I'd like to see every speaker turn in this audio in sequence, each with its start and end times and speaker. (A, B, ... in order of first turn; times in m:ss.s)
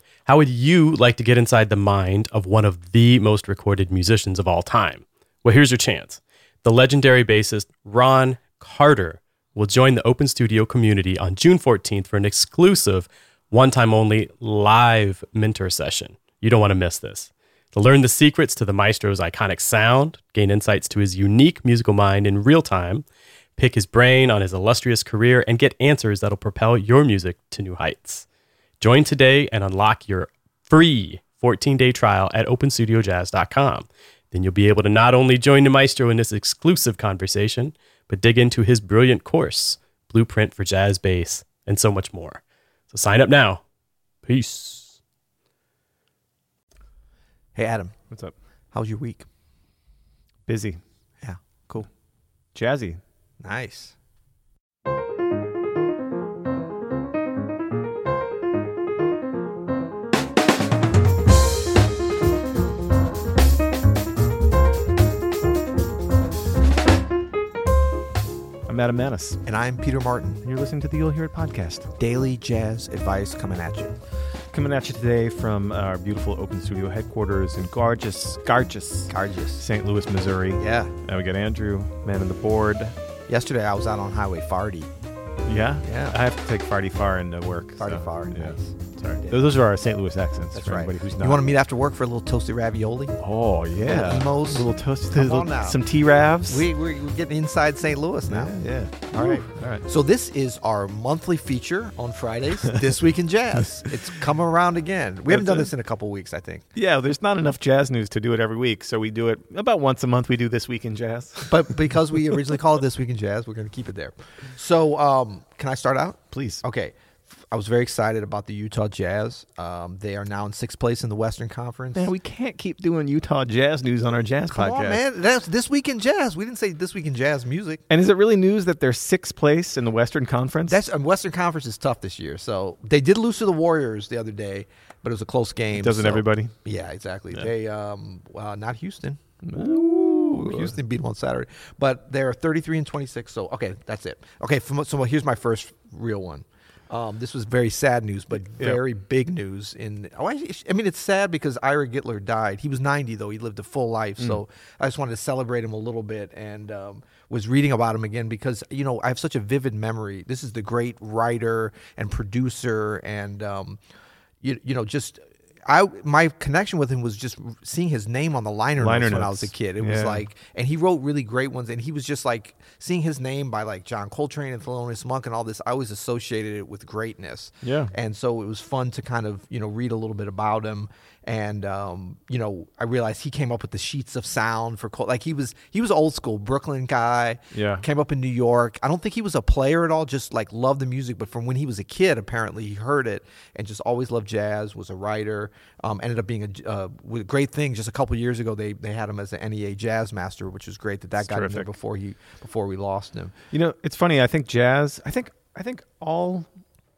0:00.3-0:23.0 A
0:23.6-0:28.2 A
0:28.8-0:43.6 A
0:44.2-0:45.0 A
0:47.6-0:47.9 B
0:48.7-0:49.2 B
0:50.5-0:50.8 C
0:51.2-0:51.9 B
0:52.6-0:53.0 C
0:53.4-0:54.0 B
1:08.7-1:09.4 C
1:09.4-1:10.4 B
1:10.4-1:11.9 C
1:12.0-1:13.9 B
1:14.5-1:23.0 C
1:19.1-1:19.7 B
1:20.6-1:20.9 B
1:23.3-1:24.9 B
1:25.4-1:31.4 C
1:25.8-1:26.2 B
1:27.8-1:29.6 B
1:30.5-1:33.2 B
1:33.2-1:36.7 C
1:33.8-1:35.8 B
1:36.5-1:38.5 B
1:38.3-1:39.8 C
1:39.2-1:46.7 B
1:42.6-1:42.9 C
1:45.3-1:45.7 C
1:46.8-1:52.6 C
1:51.5-2:02.1 B
1:56.3-1:56.6 C
2:02.0-2:05.0 C
2:04.5-2:07.8 B
2:07.9-2:10.8 C
2:10.7-2:43.8 B
2:15.7-2:16.6 C
2:19.4-2:20.8 C
2:44.4-3:23.4 B
2:48.8-2:50.2 C
2:57.6-2:57.9 C
3:07.5-3:07.8 C
3:21.2-3:21.7 C
3:23.5-3:26.5 C